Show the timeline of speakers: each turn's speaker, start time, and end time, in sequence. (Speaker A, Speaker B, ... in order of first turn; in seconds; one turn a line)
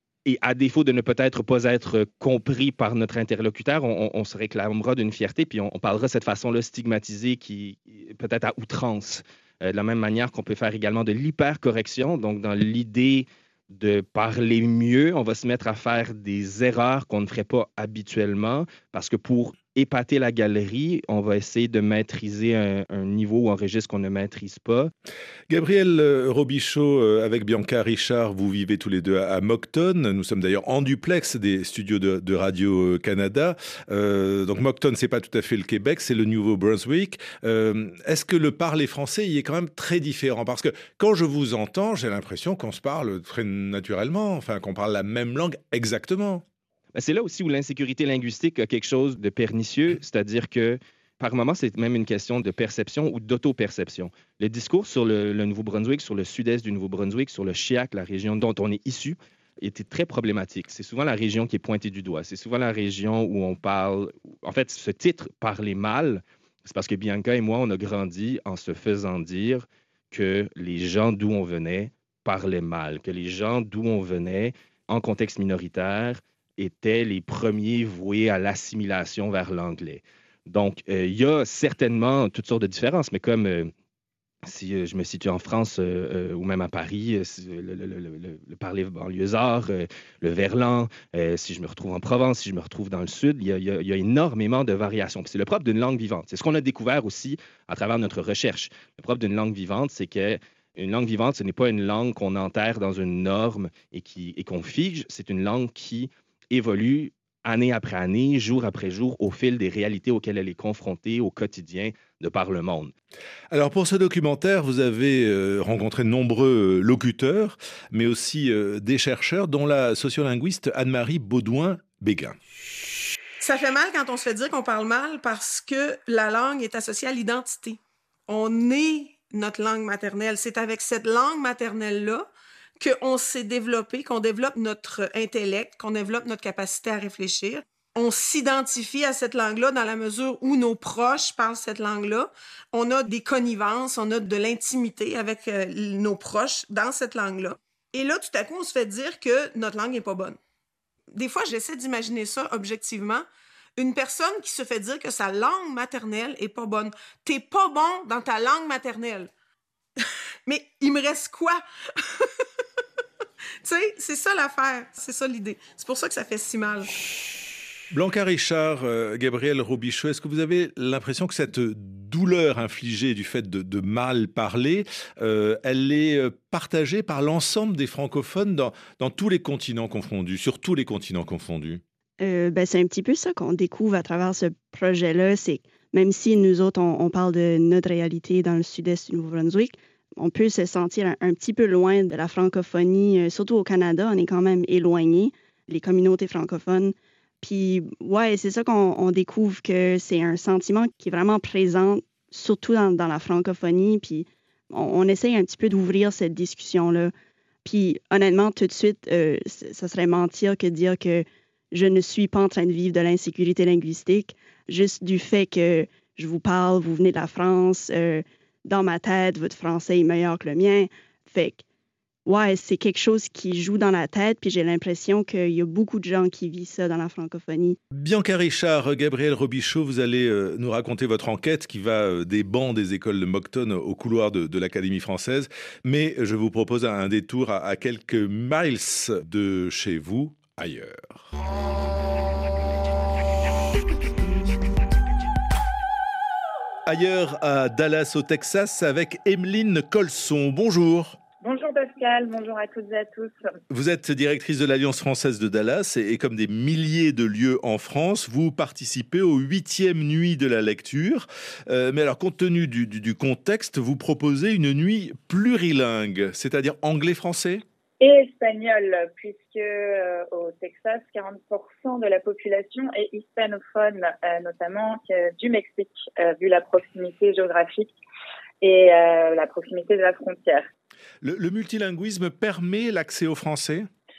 Speaker A: 0.3-24.9
Speaker B: 25.5-46.4
Speaker A: 47.0-83.7
Speaker A: 84.4-112.9
Speaker B: 113.5-122.4
Speaker C: 123.4-150.4
Speaker C: 151.1-159.3
Speaker C: 160.5-162.4
Speaker C: 163.6-167.2
Speaker B: 167.9-181.8
Speaker D: 182.2-207.1
Speaker D: 207.7-221.6
Speaker D: 222.3-227.8
Speaker B: 227.9-241.3
Speaker B: 246.9-251.2
Speaker E: 251.4-253.4
Speaker B: 253.7-267.6
Speaker E: 268.0-277.9
Speaker E: 278.6-280.7
Speaker B: 281.2-283.9